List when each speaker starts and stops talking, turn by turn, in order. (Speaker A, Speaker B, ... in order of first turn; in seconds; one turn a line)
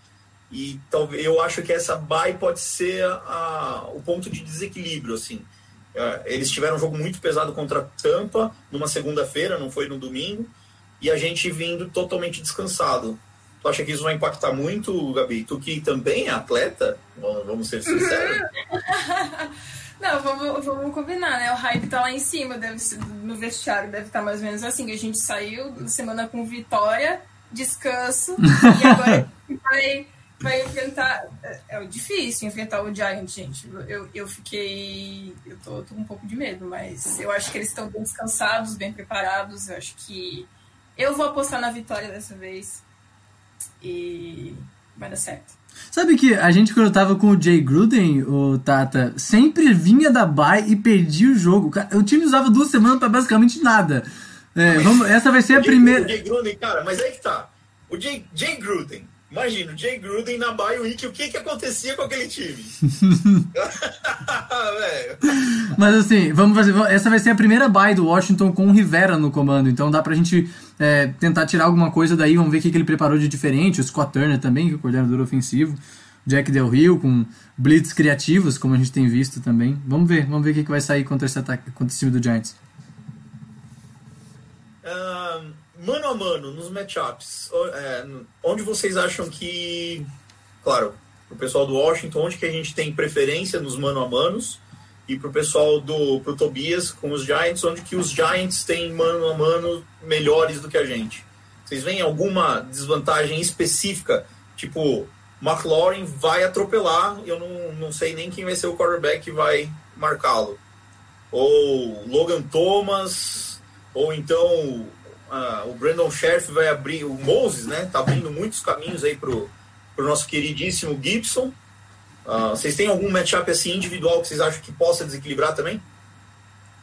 Speaker A: 0.5-18.4
Speaker B: 17.9-42.8
Speaker C: 28.6-29.2
Speaker B: 43.8-45.5
Speaker C: 45.9-56.1
Speaker A: 54.7-62.8
Speaker C: 63.0-63.4
Speaker A: 63.5-65.3
Speaker C: 65.7-82.6
Speaker A: 84.8-90.1
Speaker A: 90.6-110.6
Speaker A: 111.3-121.5
Speaker A: 122.2-125.8